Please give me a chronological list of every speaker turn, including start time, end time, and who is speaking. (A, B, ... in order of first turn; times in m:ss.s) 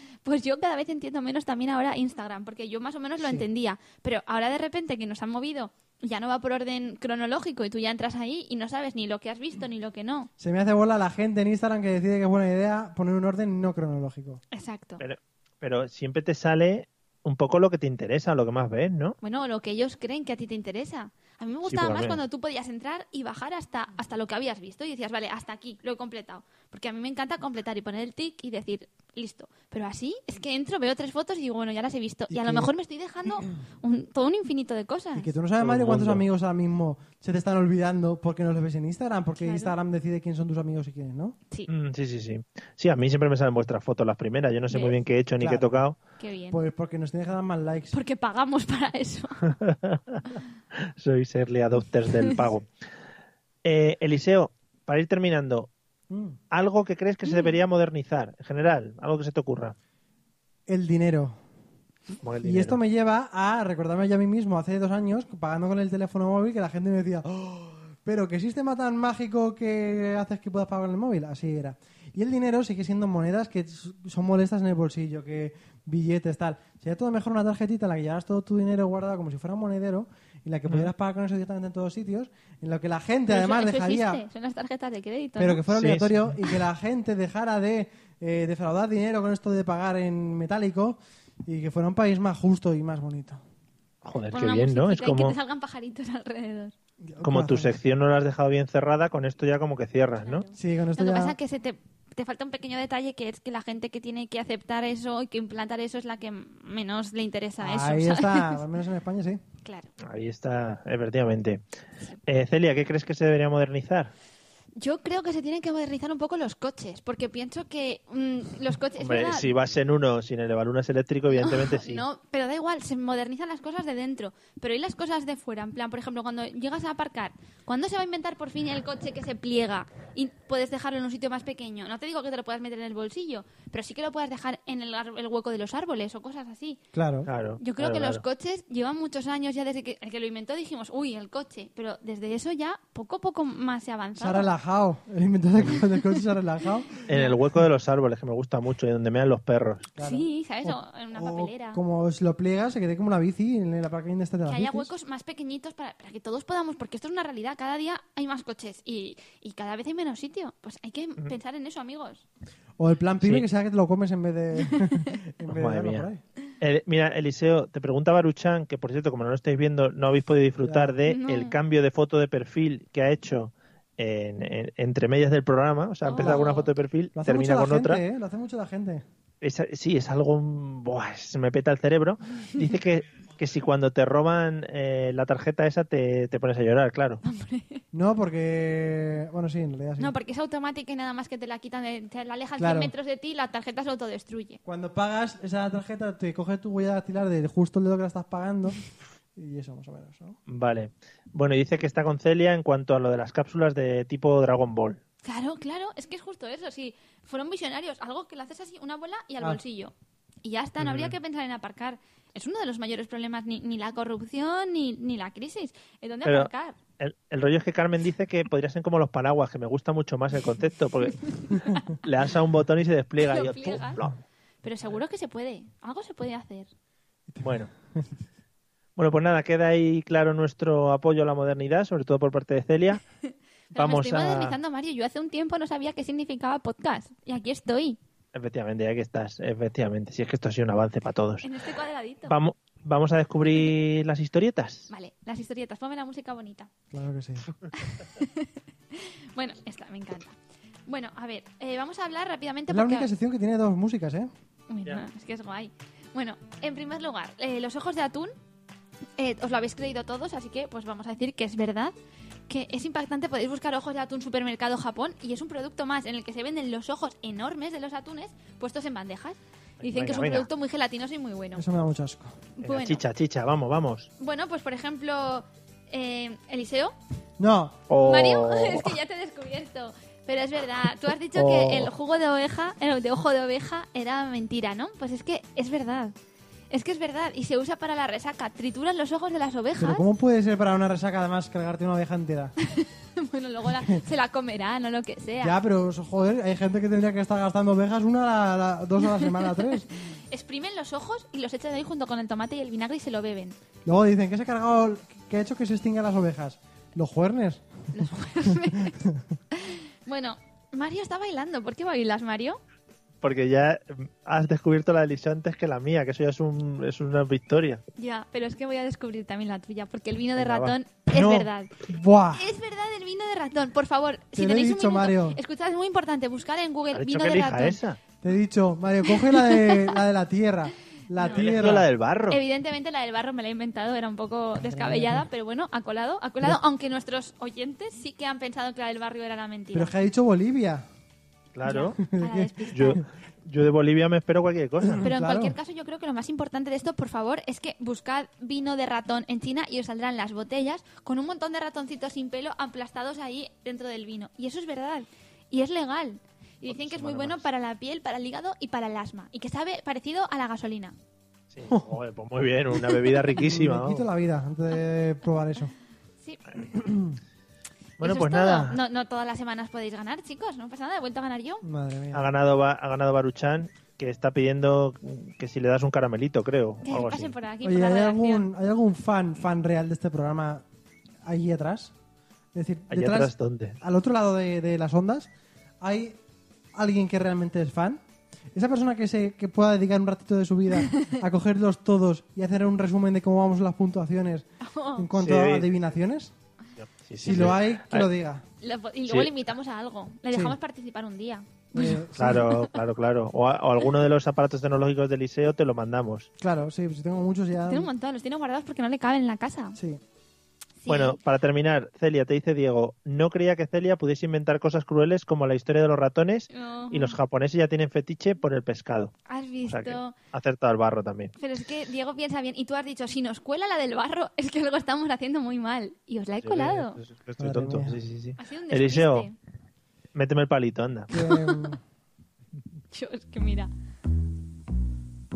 0:00.2-0:10.3 A
0:03.2-0:03.4 B
0:10.4-0:14.4 B
0:14.5-0:15.0 A
0:15.0-0:19.2 C
0:19.2-0:35.3 A
0:21.7-0:22.2 C
0:32.3-0:32.7 B
0:35.1-0:41.4 B
0:35.6-0:36.2 C
0:39.4-0:39.7 A
0:41.7-0:46.0 C
0:44.7-0:45.0 A
0:45.4-0:45.8 B
0:46.2-0:46.6 A
0:46.5-0:47.9 B
0:47.9-0:49.4 A
0:49.4-0:50.2 C
0:50.8-0:52.7 C
0:53.6-0:55.7 C
0:56.1-0:56.4 B
0:56.5-0:59.8 C
0:57.2-0:57.5 A
1:00.7-1:01.4 B
1:02.2-1:02.8 C
1:02.4-1:24.2 B
1:23.3-1:25.6 A
1:25.4-1:33.4 B
1:25.7-1:26.2 C
1:34.0-1:35.4 C
1:34.3-1:36.7 A
1:37.0-1:37.8 B
1:37.2-1:40.4 C
1:40.2-1:48.6 A
1:40.5-1:41.3 B
1:47.6-1:49.4 B
1:49.6-1:49.9 A
1:50.0-1:51.6 C
1:52.3-1:54.1 C
1:54.8-1:59.5 A
1:59.0-2:02.0 C
2:01.3-2:16.8 A
2:16.9-2:17.3 B
2:17.3-2:18.2 C
2:17.6-2:24.5 A
2:24.2-2:27.0 B
2:27.1-2:27.3 A
2:27.1-2:29.9 C
2:30.0-2:34.9 B
2:30.0-2:31.8 A
2:34.4-2:42.2 A
2:42.8-2:46.2 B
2:44.6-2:45.0 A
2:45.5-2:46.1 C
2:46.6-2:58.0 C
2:50.6-2:50.9 B
2:51.0-2:51.6 A
2:56.0-2:56.7 A
2:56.2-2:56.4 B
2:57.1-2:59.0 B
2:59.4-3:07.2 C
3:07.2-3:07.8 A
3:07.9-3:10.1 B
3:10.0-3:14.6 A
3:12.6-3:12.9 B
3:14.6-3:18.8 B
3:19.4-3:20.4 B
3:20.5-3:25.0 C
3:25.2-3:36.8 A
3:30.8-3:31.2 C
3:36.2-3:41.3 C
3:41.4-3:41.8 A
3:41.9-3:44.2 C
3:43.2-3:44.0 A
3:44.6-3:46.7 A
3:47.3-3:48.1 B
3:47.4-3:47.7 C
3:49.0-3:53.0 C
3:53.7-3:58.0 A
3:53.7-3:54.6 C
3:58.3-4:01.5 C
4:01.4-4:02.3 A
4:02.3-4:04.9 C
4:04.9-4:06.7 A
4:06.9-4:07.5 B
4:07.8-4:10.3 A
4:10.9-4:13.1 A
4:12.7-4:14.3 B
4:14.7-4:18.3 A
4:19.2-4:21.9 A
4:22.5-4:31.6 A
4:29.8-4:30.5 C
4:31.5-4:32.3 B
4:32.6-4:33.0 A
4:32.6-4:34.1 C
4:34.2-4:36.9 A
4:37.4-4:37.8 B
4:37.9-4:39.0 C
4:38.0-4:46.1 A
4:41.3-4:41.9 C
4:46.7-4:50.0 A
4:49.8-4:52.5 B
4:52.6-4:55.6 A
4:55.4-4:59.9 B
4:59.1-5:03.5 A
5:03.8-5:07.6 B
5:07.9-5:09.0 A
5:08.5-5:09.2 B
5:09.5-5:12.6 A
5:13.2-5:17.8 C
5:18.0-5:21.7 A
5:20.4-5:20.8 C
5:21.1-5:22.4 B
5:22.4-5:27.8 A
5:24.3-5:25.4 B
5:26.9-5:28.0 C
5:28.2-5:31.9 B
5:29.2-5:29.9 A
5:31.2-5:31.5 A
5:31.3-5:32.4 C
5:32.3-5:39.9 A
5:34.6-5:35.2 B
5:39.7-5:40.8 B
5:41.5-5:42.0 C
5:41.6-5:43.0 A
5:42.1-5:43.0 B
5:42.7-5:45.0 C
5:44.8-5:45.6 B
5:45.0-6:01.0 A
5:56.7-5:57.4 C
6:01.5-6:04.0 C
6:03.3-6:05.7 B
6:06.7-6:07.2 B
6:08.0-6:08.8 C
6:08.0-6:11.6 A
6:11.6-6:12.2 B
6:12.1-6:17.3 C
6:16.8-6:18.5 A
6:17.6-6:20.6 B
6:21.2-6:21.9 B
6:22.5-6:25.3 B
6:22.9-6:23.8 C
6:25.8-6:26.2 B
6:26.7-6:28.0 B
6:28.5-6:36.3 B
6:34.6-6:35.0 A
6:35.1-6:35.7 C
6:36.8-6:38.1 C
6:37.2-6:38.4 B
6:37.3-6:37.5 A
6:38.6-6:42.6 A
6:39.1-6:39.3 C
6:40.3-6:40.6 B
6:41.7-6:42.5 B
6:42.2-6:46.3 C
6:46.4-6:47.9 B
6:47.6-6:49.8 A
6:49.8-6:50.0 B
6:50.8-6:51.2 A
6:50.9-6:59.1 C
6:56.5-6:57.2 A
6:59.3-7:00.1 A
6:59.7-7:01.3 C
7:01.4-7:07.0 A
7:06.4-7:09.3 C
7:07.4-7:08.0 B
7:08.4-7:09.3 A
7:10.1-7:11.1 C
7:11.1-7:11.8 B
7:11.1-7:11.8 A
7:12.9-7:13.7 A